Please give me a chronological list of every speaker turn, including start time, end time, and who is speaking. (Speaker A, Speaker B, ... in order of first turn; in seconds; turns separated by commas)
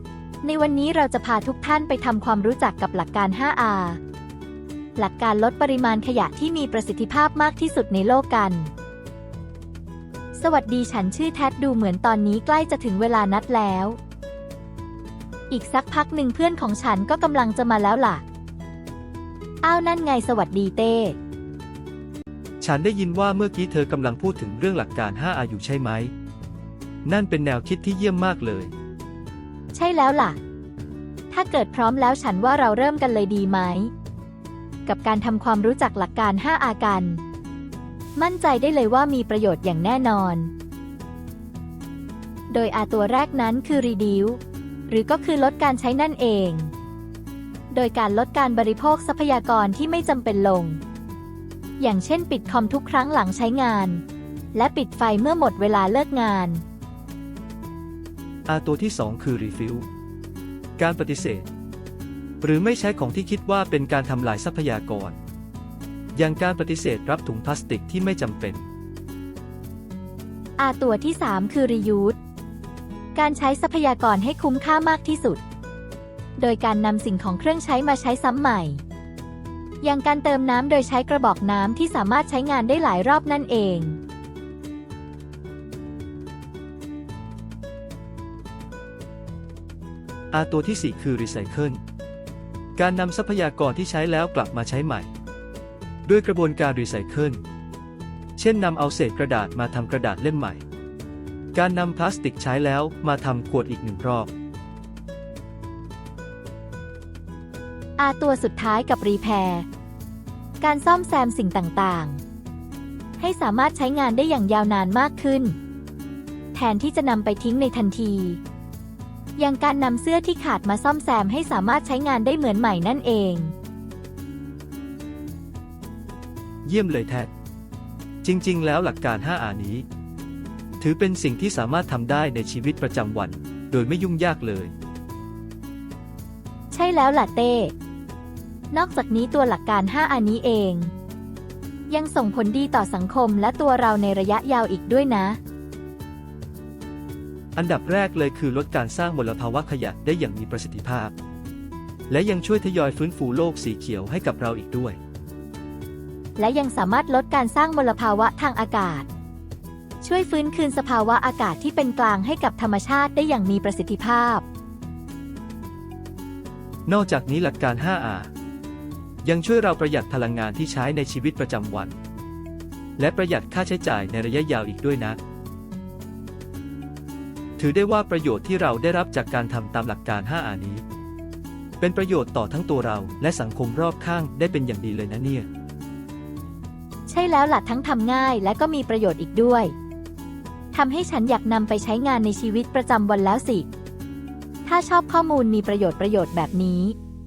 Speaker A: 0.4-4.0, Speaker A: 5.0-8.7, Speaker A: 10.3-14.0, Speaker A: 15.5-18.2, Speaker A: 19.6-21.2, Speaker B: 22.6-26.1, Speaker B: 27.1-28.7, Speaker A: 29.7-30.4, Speaker A: 31.3-33.9, Speaker A: 34.9-37.2, Speaker A: 38.2-40.5, Speaker A: 42.5-46.7, Speaker A: 47.7-50.8, Speaker A: 51.8-54.0, Speaker A: 54.5-56.6, Speaker B: 58.5-59.9, Speaker B: 60.8-61.5, Speaker B: 62.4-65.2, Speaker B: 66.2-68.7, Speaker A: 70.6-72.2, Speaker A: 73.2-75.4, Speaker A: 76.4-78.8, Speaker A: 79.8-84.0, Speaker B: 90.3-91.8, Speaker B: 92.8-95.1, Speaker B: 96.1-97.4, Speaker B: 98.4-100.6, Speaker B: 101.5-104.3, Speaker A: 108.0-109.7, Speaker A: 110.6-112.2, Speaker A: 113.2-115.6, Speaker A: 116.5-118.4, Speaker A: 119.4-123.5, Speaker B: 126.7-127.3, Speaker B: 128.2-129.9, Speaker B: 130.8-134.7, Speaker A: 136.7-137.7, Speaker A: 138.7-140.9, Speaker A: 141.9-145.4, Speaker B: 147.6-151.1, Speaker B: 152.1-155.0, Speaker A: 156.4-159.1, Speaker A: 160.0-164.4, Speaker B: 166.9-168.3, Speaker B: 169.2-171.9, Speaker B: 173.0-175.2, Speaker B: 177.6-180.8, Speaker B: 181.8-185.5, Speaker A: 187.1-189.7, Speaker A: 190.7-193.7, Speaker A: 194.7-197.0